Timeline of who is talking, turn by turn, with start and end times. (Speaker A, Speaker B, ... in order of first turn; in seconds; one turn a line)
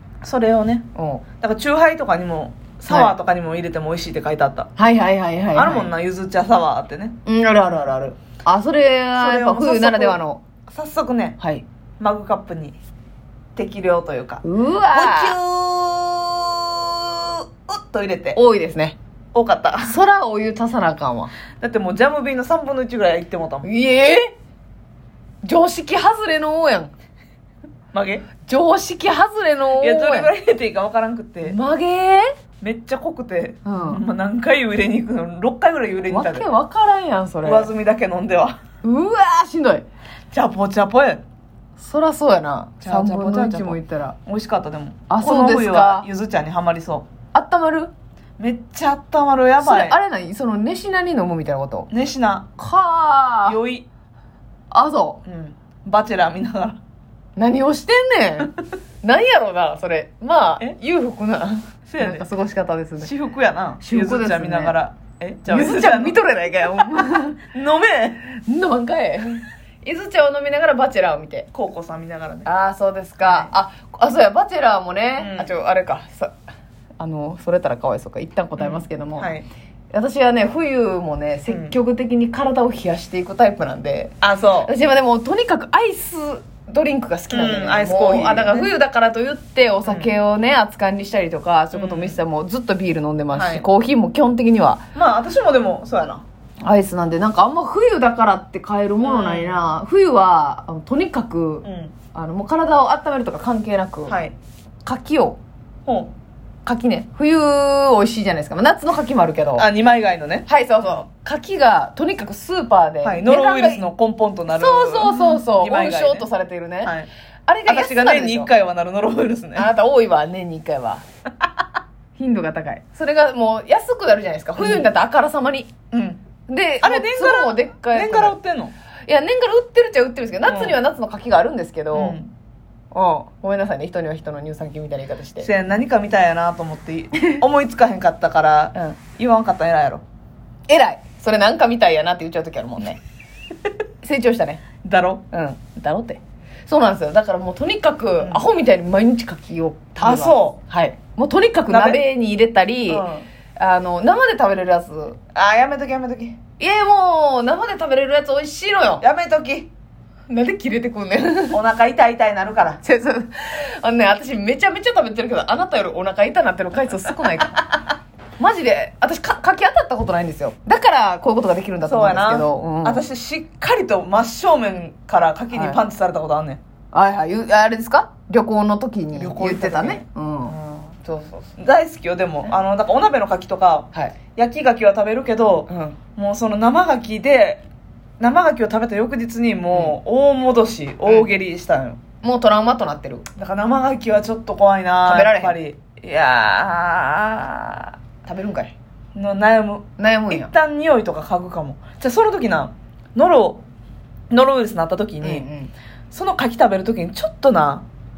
Speaker A: 0.2-0.9
Speaker B: 0.9-1.2
Speaker A: 1.4-4.7
Speaker B: 2.9-3.1
Speaker B: 4.8-5.9
Speaker A: 5.5-7.1
Speaker B: 7.2-10.4
Speaker A: 9.2-11.4
Speaker B: 11.4-11.6
Speaker A: 12.0-12.8
Speaker A: 13.6-18.4
Speaker B: 14.4-15.3
Speaker B: 18.3-18.9
Speaker A: 19.3-19.9
Speaker B: 19.8-21.3
Speaker A: 21.6-23.7
Speaker B: 23.6-24.3
Speaker B: 25.4-26.9
Speaker A: 27.9-28.3
Speaker B: 28.4-30.3
Speaker A: 29.8-31.6
Speaker B: 31.4-32.3
Speaker A: 32.6-36.5
Speaker B: 33.6-34.0
Speaker B: 36.1-37.7
Speaker A: 37.4-38.6
Speaker B: 38.8-39.8
Speaker A: 40.3-41.2
Speaker B: 41.8-44.2
Speaker A: 42.8-47.1
Speaker B: 45.1-46.1
Speaker B: 47.3-47.9
Speaker A: 48.4-50.0
Speaker B: 49.6-51.9
Speaker A: 51.9-52.5
Speaker B: 52.6-53.6
Speaker A: 53.5-53.9
Speaker B: 54.7-55.2
Speaker A: 55.2-56.8
Speaker B: 57.4-63.1
Speaker A: 61.9-62.3
Speaker A: 63.0-68.2
Speaker B: 63.8-64.7
Speaker B: 65.5-67.4
Speaker B: 68.3-71.5
Speaker A: 71.5-72.5
Speaker B: 72.4-76.3
Speaker A: 73.2-73.5
Speaker A: 75.2-75.5
Speaker B: 77.0-79.3
Speaker A: 78.6-79.5
Speaker B: 79.9-94.8
Speaker A: 81.5-81.7
Speaker A: 84.2-84.7
Speaker A: 87.3-88.7
Speaker A: 89.8-90.1
Speaker A: 91.7-92.2
Speaker A: 93.3-93.7
Speaker A: 94.9-96.2
Speaker B: 96.6-104.2
Speaker A: 99.0-99.7
Speaker A: 101.6-101.9
Speaker A: 104.1-104.3
Speaker B: 104.8-105.4
Speaker A: 105.8-106.1
Speaker B: 106.6-109.7
Speaker A: 109.5-111.0
Speaker B: 110.5-113.8
Speaker A: 113.0-116.3
Speaker B: 114.5-116.9
Speaker A: 116.8-117.1
Speaker B: 117.5-118.5
Speaker A: 117.7-119.7
Speaker B: 119.5-121.0
Speaker B: 122.2-125.7
Speaker A: 124.6-124.9
Speaker A: 125.9-126.2
Speaker B: 126.5-128.3
Speaker A: 126.8-128.7
Speaker B: 129.1-132.2
Speaker A: 130.4-130.8
Speaker A: 131.9-132.3
Speaker B: 132.9-135.5
Speaker A: 135.4-140.0
Speaker B: 140.7-143.0
Speaker B: 144.0-144.6
Speaker A: 144.8-145.2
Speaker B: 145.3-153.1
Speaker A: 148.2-148.5
Speaker A: 150.0-150.6
Speaker A: 151.7-152.0
Speaker A: 152.9-153.2
Speaker B: 153.6-155.2
Speaker A: 155.3-156.4
Speaker B: 156.6-159.0
Speaker A: 159.0-159.7
Speaker B: 160.3-161.6
Speaker A: 161.5-162.8
Speaker B: 162.8-167.8
Speaker B: 168.4-173.0
Speaker A: 171.8-176.6
Speaker B: 175.5-175.8
Speaker B: 176.9-181.5
Speaker A: 179.1-180.8
Speaker A: 181.6-187.7
Speaker B: 185.7-186.0
Speaker A: 188.2-192.0
Speaker B: 192.2-193.3
Speaker A: 193.3-197.9
Speaker B: 195.0-195.6
Speaker B: 198.2-198.7
Speaker A: 199.1-203.6
Speaker B: 200.0-200.5
Speaker A: 204.3-205.4
Speaker B: 205.2-205.7
Speaker A: 206.1-207.8